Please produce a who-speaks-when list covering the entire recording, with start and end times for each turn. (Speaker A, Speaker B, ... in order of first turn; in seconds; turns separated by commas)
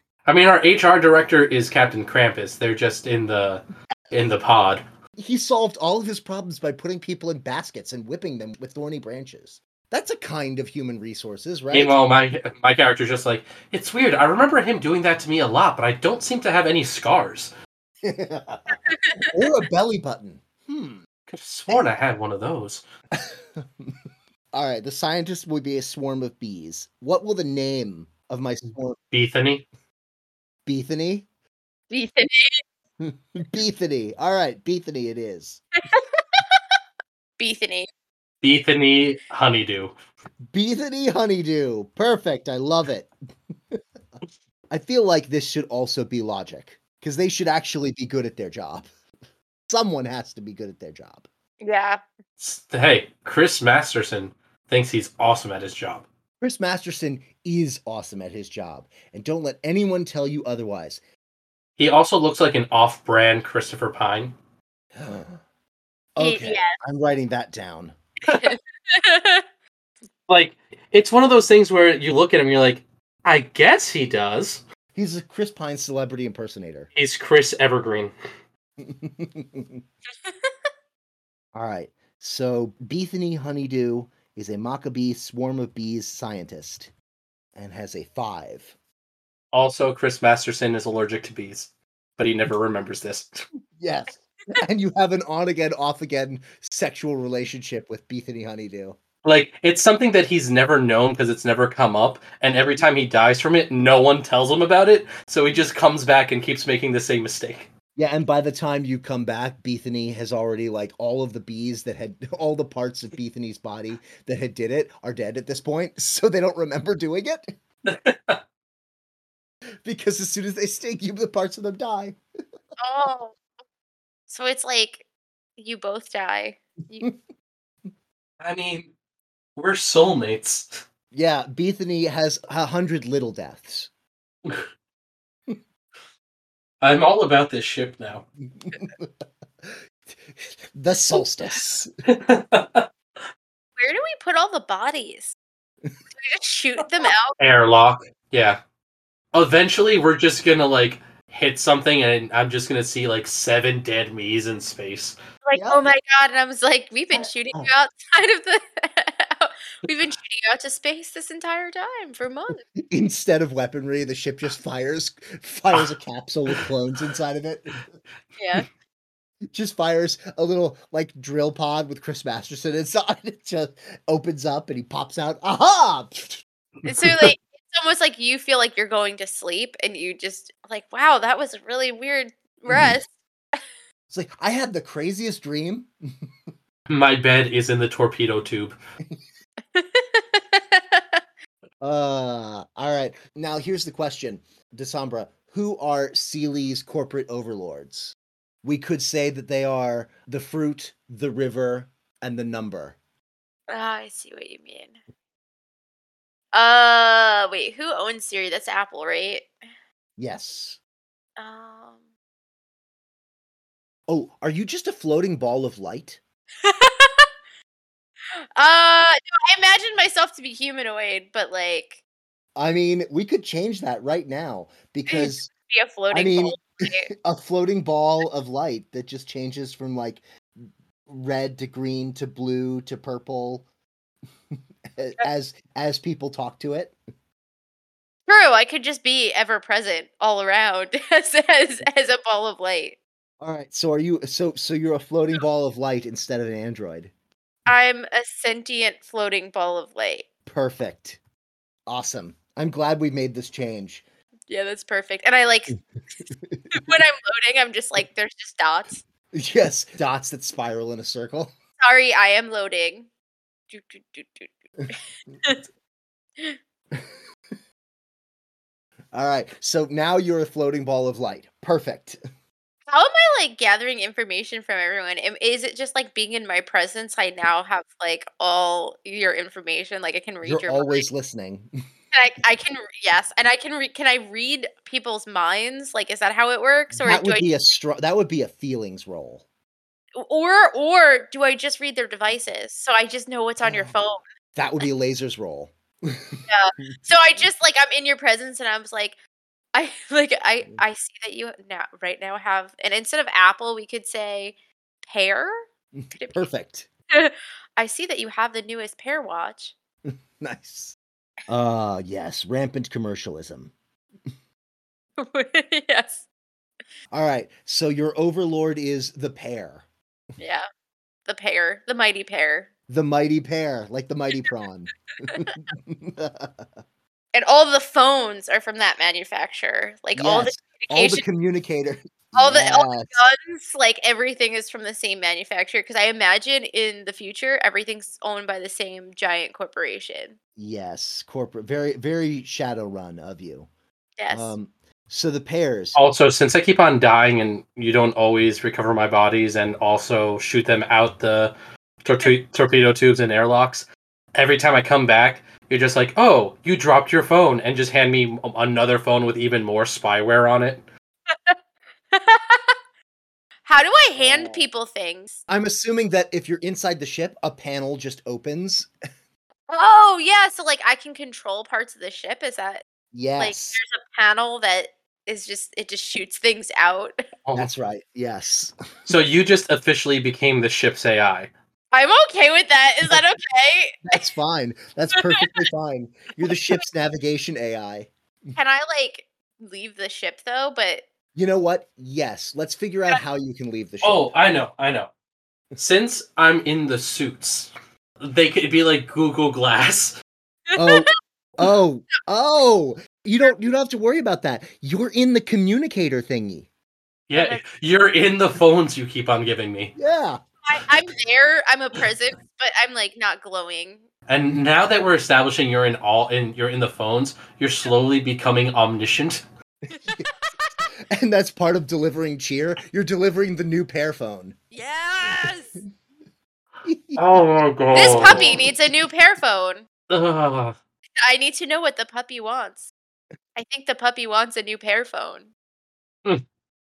Speaker A: 0.3-4.8, Speaker B: 5.2-11.9, Speaker A: 11.7-17.5, Speaker B: 18.0-21.0, Speaker C: 18.9-19.3, Speaker A: 21.3-22.8, Speaker B: 23.1-24.0, Speaker B: 24.5-29.0, Speaker A: 29.1-29.7, Speaker B: 30.7-31.3, Speaker C: 31.9-32.6, Speaker B: 33.0-35.6, Speaker C: 35.9-36.6, Speaker C: 37.4-37.9, Speaker A: 38.4-40.0, Speaker B: 40.5-43.1, Speaker B: 44.7-48.9, Speaker B: 49.7-51.3, Speaker C: 51.6-52.0, Speaker A: 52.4-56.1, Speaker B: 56.4-61.0, Speaker A: 61.8-64.4, Speaker B: 65.0-65.4, Speaker B: 66.2-68.0, Speaker C: 66.2-66.8, Speaker C: 68.3-69.4, Speaker A: 70.3-74.6, Speaker B: 75.0-76.9, Speaker A: 77.0-78.1, Speaker B: 78.8-79.8, Speaker C: 80.2-80.5, Speaker B: 81.5-86.9, Speaker B: 87.5-88.8, Speaker A: 89.5-93.4, Speaker B: 93.8-99.0, Speaker A: 99.2-107.7, Speaker B: 108.0-117.5, Speaker A: 117.8-118.4, Speaker B: 119.8-122.2, Speaker C: 122.8-123.4, Speaker C: 124.3-125.1, Speaker C: 125.6-127.1, Speaker A: 128.4-128.9, Speaker A: 129.6-130.8, Speaker B: 131.1-133.9, Speaker A: 136.8-138.3, Speaker B: 138.6-139.1, Speaker B: 140.4-141.9, Speaker A: 142.1-142.9, Speaker C: 143.8-145.3, Speaker C: 146.1-147.3, Speaker A: 147.4-148.6, Speaker A: 149.3-155.2, Speaker C: 155.4-162.6, Speaker B: 155.5-155.9, Speaker B: 157.2-157.7, Speaker B: 162.8-167.8, Speaker C: 168.4-168.7, Speaker B: 169.5-176.4, Speaker C: 176.8-183.6, Speaker A: 176.9-177.2, Speaker B: 184.1-186.3, Speaker A: 186.9-188.8, Speaker C: 189.7-191.2, Speaker B: 191.8-203.0, Speaker C: 203.7-205.0, Speaker C: 206.5-209.5, Speaker B: 210.2-210.8, Speaker C: 211.4-212.0, Speaker B: 214.1-216.2, Speaker C: 216.6-217.3, Speaker C: 218.4-222.0, Speaker B: 222.6-225.5, Speaker C: 225.1-227.1, Speaker B: 226.1-233.7, Speaker B: 234.5-236.9, Speaker C: 238.3-243.0, Speaker B: 243.4-247.1, Speaker C: 247.7-250.3, Speaker B: 250.5-251.2, Speaker B: 251.9-254.0, Speaker C: 254.5-255.8, Speaker B: 256.3-256.8, Speaker C: 256.7-259.0, Speaker B: 259.3-261.5, Speaker C: 261.8-263.1, Speaker C: 263.7-265.6, Speaker B: 269.1-272.2, Speaker C: 272.9-281.1, Speaker B: 280.4-281.7, Speaker C: 282.1-287.5, Speaker B: 286.9-289.4, Speaker C: 290.2-294.2, Speaker B: 293.6-293.9, Speaker B: 294.6-297.4, Speaker C: 296.5-299.2, Speaker C: 299.8-306.5, Speaker B: 306.0-306.9, Speaker C: 307.1-309.8, Speaker B: 310.1-311.0, Speaker B: 311.5-313.7, Speaker C: 315.2-316.2, Speaker B: 317.1-319.9, Speaker C: 321.3-322.7, Speaker B: 322.9-326.7, Speaker C: 327.3-331.2, Speaker B: 330.1-333.2, Speaker C: 332.4-340.4, Speaker B: 340.6-343.7, Speaker C: 344.2-344.5, Speaker B: 344.3-346.0, Speaker A: 346.0-360.9, Speaker C: 361.3-361.6, Speaker C: 362.1-362.7, Speaker C: 363.7-365.4, Speaker B: 364.2-364.7, Speaker B: 365.5-368.9, Speaker C: 369.7-372.8, Speaker B: 373.1-373.8, Speaker C: 373.4-377.2, Speaker A: 377.5-377.7, Speaker B: 377.6-379.1, Speaker A: 379.1-381.5, Speaker C: 381.9-384.2, Speaker B: 384.0-388.6, Speaker C: 388.6-391.1, Speaker B: 391.4-394.3, Speaker A: 394.0-395.1, Speaker A: 395.8-400.2, Speaker C: 400.8-401.1, Speaker B: 400.8-406.7, Speaker A: 407.3-409.9, Speaker B: 410.0-410.4, Speaker C: 410.7-414.1, Speaker A: 414.3-419.4, Speaker C: 419.9-420.5, Speaker B: 420.0-420.3, Speaker B: 421.1-424.6, Speaker C: 424.7-425.8, Speaker B: 426.9-427.4, Speaker A: 427.2-428.6, Speaker C: 427.9-429.9, Speaker B: 428.0-429.0, Speaker A: 430.1-430.8, Speaker C: 431.2-432.9, Speaker C: 433.6-435.5